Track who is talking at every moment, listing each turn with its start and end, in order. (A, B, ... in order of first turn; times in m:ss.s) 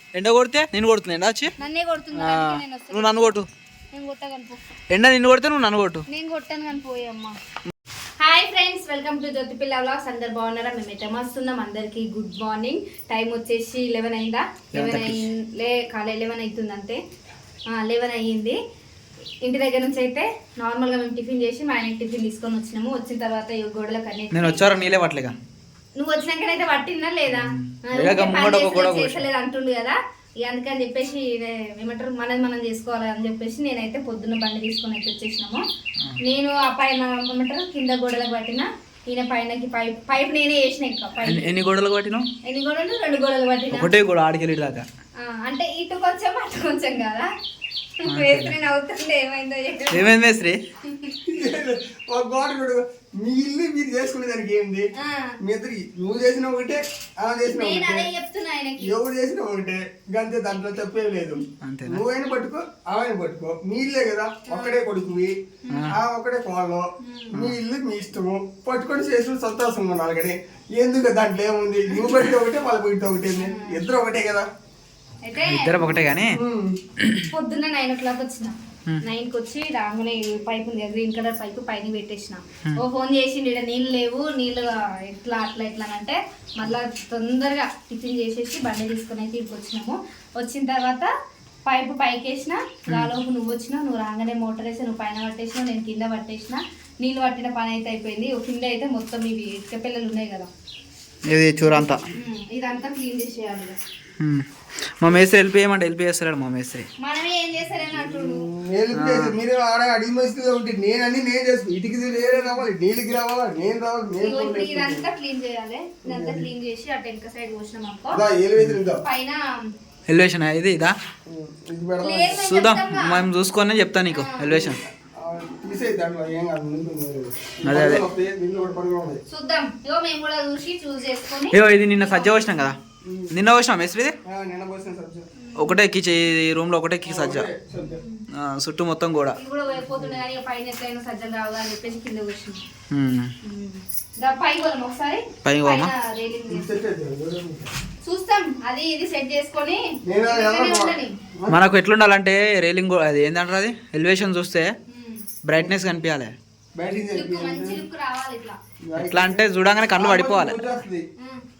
0:00.1-0:01.5 A
0:01.6-0:03.4 B
0:02.1-0:03.5 A
0:03.9-0:04.6 B
0:04.9-0:06.0 A
0:06.1-0:07.3 B
0:08.2-0:17.0 B
0:14.7-0:15.2 A
0:17.7-0:18.6 B
0:19.4-0:24.6 B
0:24.3-0:25.3 A
0:26.0-0:35.6 B
0:27.3-0:29.3 A
0:36.2-0:41.4 B
0:41.2-0:42.3 A
0:42.4-0:43.9 B
0:43.7-0:44.8 A
0:45.2-0:47.3 B
0:48.0-0:50.1 B
0:48.0-0:48.6 A
0:49.9-0:50.6 A
0:50.9-0:51.1 B
0:51.2-0:54.9 C
0:55.0-0:55.3 B
0:55.4-0:58.1 C
0:57.5-0:59.0 B
0:58.8-1:05.4 C
1:01.6-1:02.0 A
1:04.5-1:04.8 B
1:05.6-1:05.9 B
1:05.7-1:06.0 A
1:05.9-1:14.5 C
1:07.0-1:07.4 B
1:13.4-1:13.8 B
1:15.2-1:15.9 B
1:15.4-1:16.4 A
1:16.1-1:16.8 C
1:17.0-1:17.3 A
1:17.3-1:31.1 B
1:31.6-1:40.5 B
1:41.3-1:42.0 A
1:42.1-1:43.8 B
1:44.2-1:44.4 A
1:45.0-1:46.9 A
1:47.0-1:48.5 B
1:48.0-1:55.0 C
1:48.9-1:49.4 A
1:54.2-1:58.2 B
1:56.0-1:56.5 C
1:58.1-1:59.0 C
1:59.0-1:59.6 B
2:00.1-2:01.0 A
2:01.2-2:02.4 C
2:02.0-2:03.3 B
2:02.3-2:04.8 A
2:04.1-2:04.5 B
2:04.5-2:09.2 C
2:07.6-2:08.0 A
2:09.3-2:12.5 B
2:11.5-2:12.8 A
2:13.0-2:13.4 C
2:13.3-2:14.2 A
2:14.2-2:15.3 C
2:15.4-2:15.8 B
2:15.6-2:17.5 A
2:17.0-2:18.0 C
2:17.8-2:18.2 B
2:18.3-2:19.4 A
2:19.3-2:22.6 B
2:19.8-2:20.2 C
2:22.9-2:23.3 A
2:23.4-2:26.7 B
2:25.4-2:25.9 A
2:26.5-2:27.7 C
2:28.0-2:31.1 B
2:30.0-2:31.6 C
2:31.5-2:34.7 A
2:34.9-2:35.2 B
2:35.4-2:36.3 A
2:36.8-2:37.8 C
2:37.1-2:38.6 B
2:38.8-2:41.0 C
2:39.0-2:40.6 A